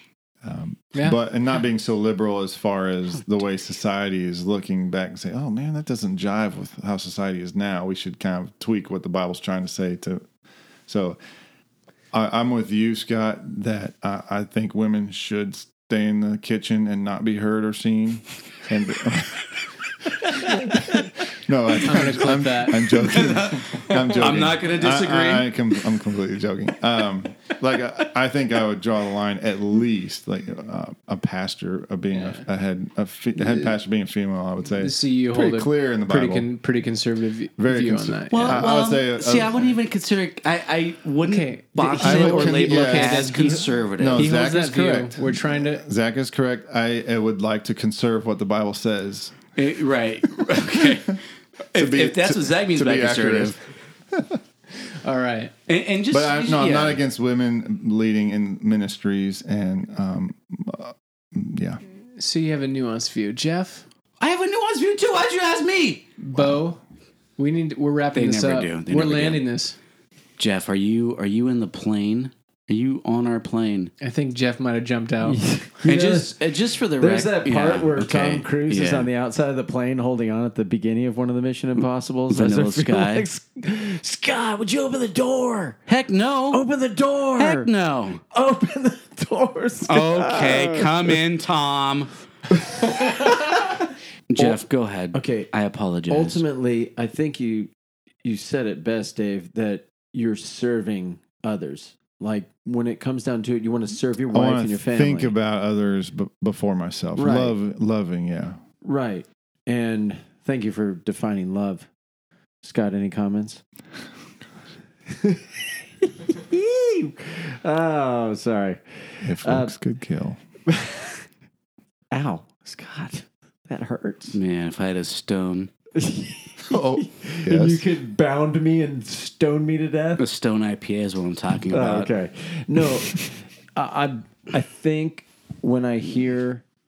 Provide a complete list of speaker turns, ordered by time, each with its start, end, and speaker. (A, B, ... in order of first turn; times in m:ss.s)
0:00.4-0:10.2 A
0:10.9-0:11.2 A
0:12.1-0:19.5 A
0:20.2-0:36.5 A
0:21.8-0:23.0 B
0:22.9-0:25.6 C
0:32.1-0:32.4 B
0:34.7-0:38.6 B
0:37.6-0:39.8 A
0:38.3-0:44.3 C
0:41.3-0:45.8 B
0:42.0-0:49.4 A
0:49.6-0:51.2 C
0:50.4-0:51.0 A
0:51.7-0:53.6 C
0:51.8-0:53.5 A
0:55.0-0:55.5 B
0:55.7-0:57.0 C
0:56.1-1:01.8 A
1:02.2-1:03.8 B
1:04.2-1:06.1 C
1:06.2-1:06.8 B
1:07.4-1:09.8 B
1:08.1-1:09.4 C
1:10.4-1:13.9 C
1:14.0-1:15.4 B
1:15.2-1:25.8 D
1:15.8-1:19.1 C
1:22.3-1:23.3 C
1:25.9-1:26.6 C
1:26.5-1:27.7 D
1:27.4-1:28.2 C
1:28.3-1:31.2 D
1:29.9-1:32.1 C
1:32.7-1:33.7 D
1:34.3-1:36.4 C
1:35.1-1:35.5 D
1:36.1-1:37.7 D
1:38.2-1:45.4 D
1:44.3-1:48.6 A
1:47.1-1:47.6 D
1:48.8-1:51.9 D
1:52.6-1:53.6 D
1:55.1-1:59.7 D
1:59.2-2:00.4 A
2:00.7-2:01.2 D
2:02.1-2:04.4 D
2:04.3-2:05.7 C
2:06.0-2:10.2 D
2:06.6-2:07.8 A
2:10.2-2:12.1 C
2:11.7-2:16.6 D